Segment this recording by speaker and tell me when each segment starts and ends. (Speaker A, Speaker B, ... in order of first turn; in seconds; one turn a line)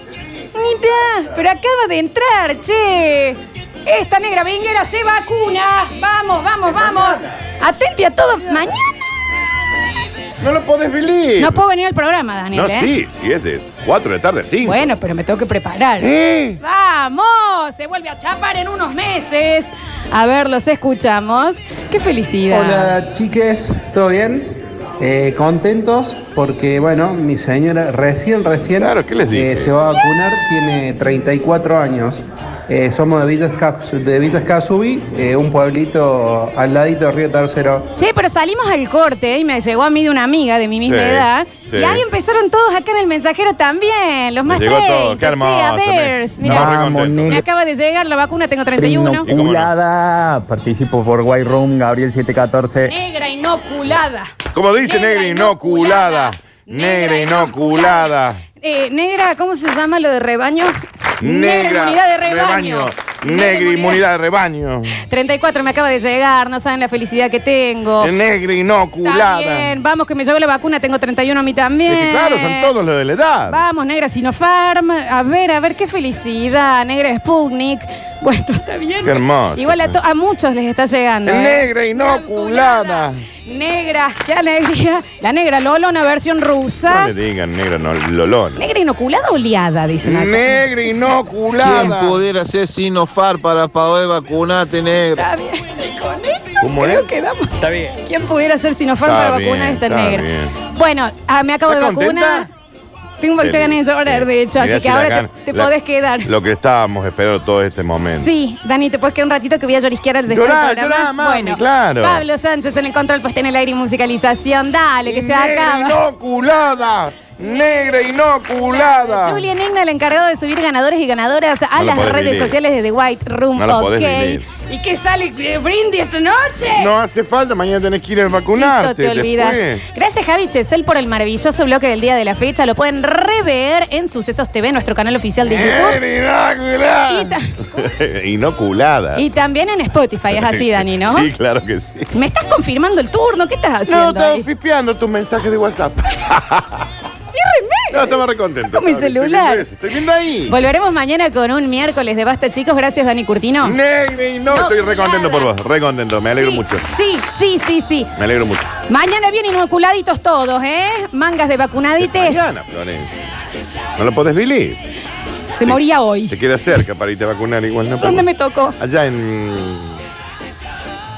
Speaker A: 0.5-8.9
Speaker B: 10.4-11.6
Speaker A: 11.4-12.9
Speaker B: 12.5-14.8
Speaker A: 14.6-23.0
Speaker B: 16.0-16.6
Speaker C: 22.5-37.8
Speaker B: 28.8-29.7
Speaker A: 38.0-46.7
Speaker B: 40.9-42.0
Speaker B: 44.5-47.4
Speaker D: 46.4-47.4
Speaker A: 47.3-49.3
Speaker D: 48.8-52.9
Speaker B: 49.2-49.7
Speaker A: 52.8-64.0
Speaker B: 54.5-58.4
Speaker B: 61.2-65.0
Speaker A: 65.0-68.1
Speaker B: 68.0-69.8
Speaker A: 69.0-72.7
Speaker B: 71.8-73.6
Speaker A: 73.5-87.1
Speaker B: 79.0-80.0
Speaker B: 81.2-83.2
Speaker B: 86.9-88.6
Speaker A: 88.5-90.7
Speaker B: 90.0-92.2
Speaker E: 91.6-95.3
Speaker A: 95.2-102.5
Speaker B: 96.6-97.1
Speaker B: 99.0-100.5
Speaker B: 101.7-102.5
Speaker A: 103.2-106.3
Speaker B: 103.4-105.7
Speaker B: 106.2-108.3
Speaker A: 108.1-116.0
Speaker B: 110.3-112.2
Speaker B: 115.1-119.4
Speaker A: 118.6-126.9
Speaker B: 121.8-122.5
Speaker B: 123.5-124.4
Speaker B: 126.6-129.8
Speaker A: 128.5-136.0
Speaker B: 135.4-139.2
Speaker A: 137.1-137.5
Speaker A: 139.1-141.3
Speaker B: 140.3-142.1
Speaker A: 142.1-144.4
Speaker B: 143.9-146.8
Speaker A: 147.3-149.7
Speaker B: 147.9-150.5
Speaker A: 150.4-153.8
Speaker B: 153.6-156.8
Speaker A: 154.5-155.5
Speaker A: 156.4-158.1
Speaker B: 158.2-158.7
Speaker A: 158.9-162.5
Speaker B: 162.0-163.1
Speaker B: 163.9-164.8
Speaker A: 165.5-166.3
Speaker B: 166.3-170.0
Speaker A: 168.0-168.8